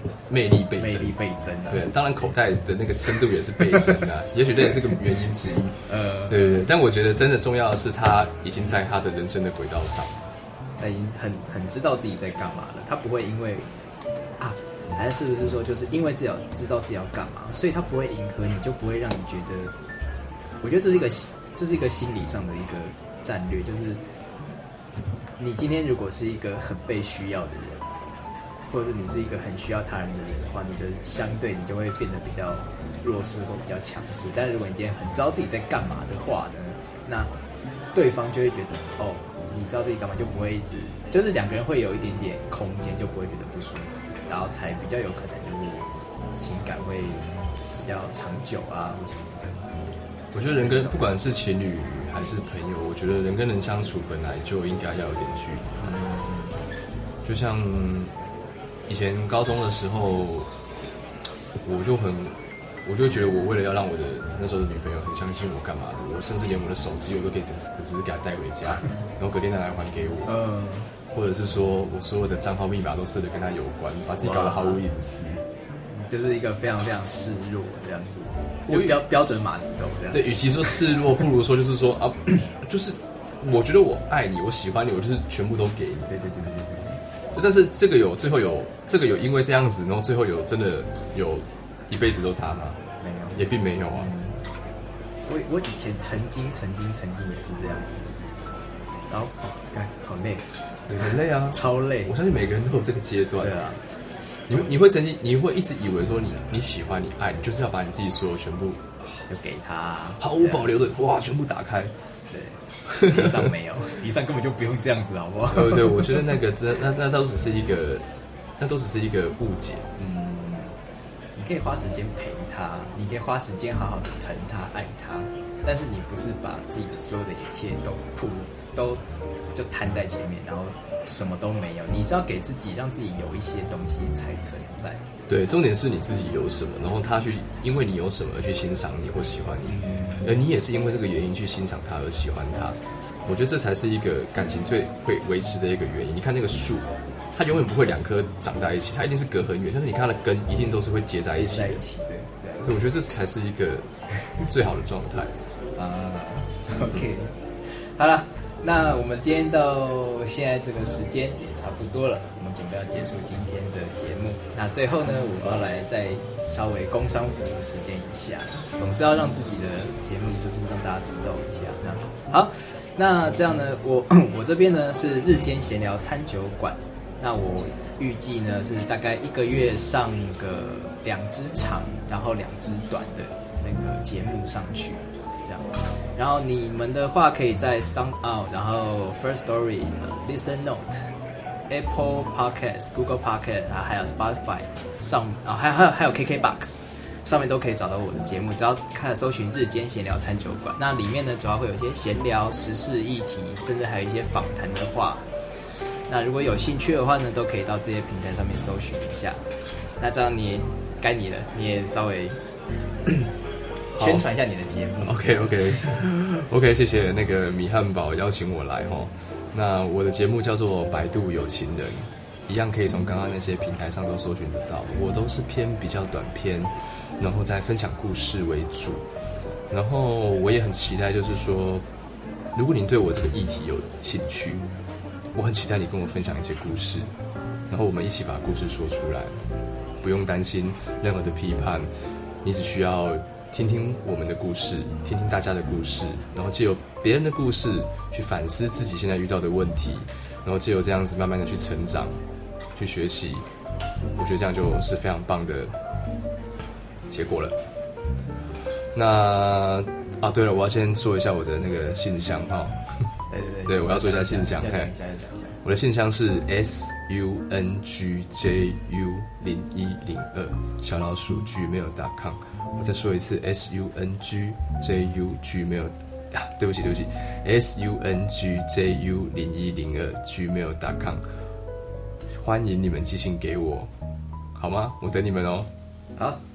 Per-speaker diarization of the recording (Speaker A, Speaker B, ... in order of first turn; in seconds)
Speaker A: 0.3-1.1, 1.7-10.2, 50.3-56.0, 57.2-58.1, 58.9-60.5, 61.6-70.3, 71.1-75.4, 78.7-79.0, 80.1-86.1, 87.3-92.8, 93.3-94.1, 100.9-103.7, 104.5-109.0, 110.2-111.9, 113.0-113.4, 115.5-118.0, 118.6-119.9, 135.3-151.8, 152.6-155.4, 213.9-214.2, 215.0-229.1, 229.7-231.8, 232.6-234.6, 235.3-237.1, 237.7-239.4, 240.0-241.9, 242.4-252.2, 252.8-253.5, 254.1-255.8, 257.1-257.6, 258.9-263.1, 263.7-264.9, 265.6-281.3, 282.3-283.9, 284.6-285.7
Speaker B: 0.8-1.9, 5.9-6.7, 10.8-13.7, 14.4-19.7, 20.6-24.0, 25.4-27.9, 28.7-37.3, 37.9-49.7, 50.6-51.0, 55.8-56.6, 70.3-70.9, 74.2-74.8, 75.9-80.7, 86.1-87.0, 93.0-94.4, 95.3-98.1, 99.1-100.5, 101.0-102.1, 103.4-103.8, 109.3-110.7, 112.3-116.0, 120.0-120.8, 121.4-129.0, 129.5-135.1, 139.7-140.4, 151.4-152.7, 155.8-191.1, 191.7-205.3, 205.8-209.4, 210.0-212.4, 213.1-213.3, 213.9-215.2, 263.3-265.6